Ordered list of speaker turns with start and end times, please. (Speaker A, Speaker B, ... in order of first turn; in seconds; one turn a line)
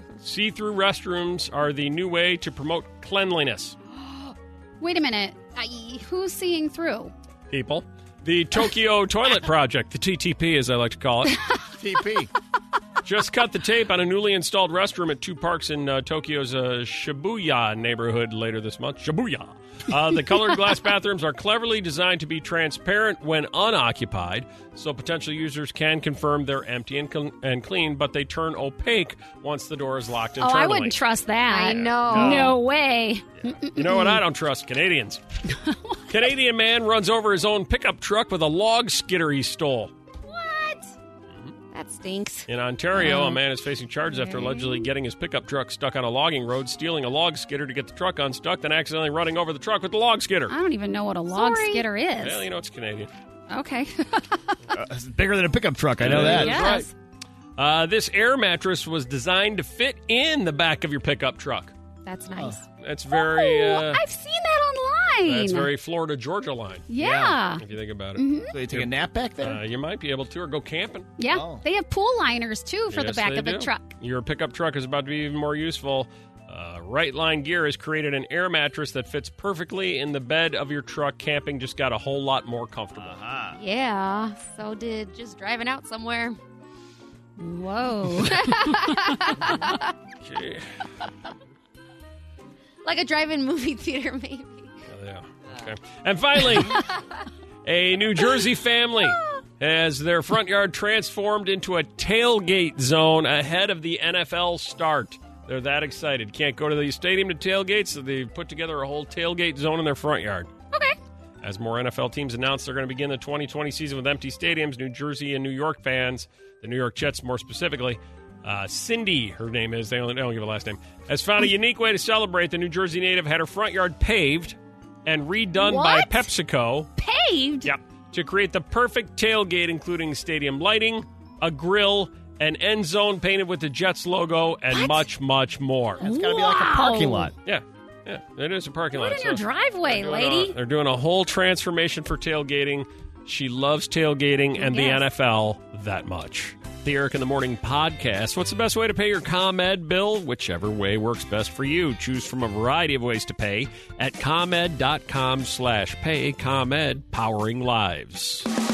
Speaker A: 0.2-3.8
Speaker B: 4.8-5.4
Speaker C: 5.5-6.0
Speaker B: 6.0-7.1
Speaker A: 7.5-11.4
Speaker D: 11.8-12.3
Speaker A: 13.0-30.9
Speaker B: 30.4-34.2
Speaker C: 31.5-32.5
Speaker D: 32.1-32.5
Speaker A: 33.7-35.2
Speaker B: 35.5-36.3
Speaker A: 36.1-39.9
Speaker C: 40.3-40.8
Speaker C: 41.7-42.5
Speaker A: 42.5-50.5
Speaker B: 43.0-43.4
Speaker B: 44.2-44.8
Speaker B: 50.5-52.4
Speaker C: 51.3-51.8
Speaker A: 52.2-53.1
Speaker B: 53.5-54.6
Speaker D: 54.7-56.6
Speaker A: 56.0-56.9
Speaker B: 56.1-56.9
Speaker A: 57.6-61.7
Speaker C: 62.0-62.6
Speaker D: 62.3-62.6
Speaker A: 62.8-64.0
Speaker B: 63.1-65.7
Speaker A: 65.2-66.8
Speaker B: 66.9-67.6
Speaker D: 67.0-67.4
Speaker A: 67.6-68.9
Speaker B: 68.2-68.6
Speaker D: 68.5-69.6
Speaker A: 69.4-71.1
Speaker B: 71.2-73.9
Speaker D: 71.3-71.6
Speaker A: 72.9-83.2
Speaker D: 82.9-83.6
Speaker C: 83.5-86.4
Speaker B: 87.4-89.4
Speaker C: 88.2-89.9
Speaker A: 90.2-90.8
Speaker C: 92.8-94.7
Speaker A: 94.9-96.8
Speaker C: 96.7-97.2
Speaker A: 97.6-110.5
Speaker C: 99.0-99.4
Speaker A: 111.4-126.9
Speaker B: 125.7-126.1
Speaker B: 127.0-127.7
Speaker A: 127.6-136.0
Speaker B: 134.7-135.0
Speaker D: 136.0-137.3
Speaker B: 136.0-137.3
Speaker A: 137.4-158.5
Speaker B: 138.9-140.5
Speaker B: 144.6-145.0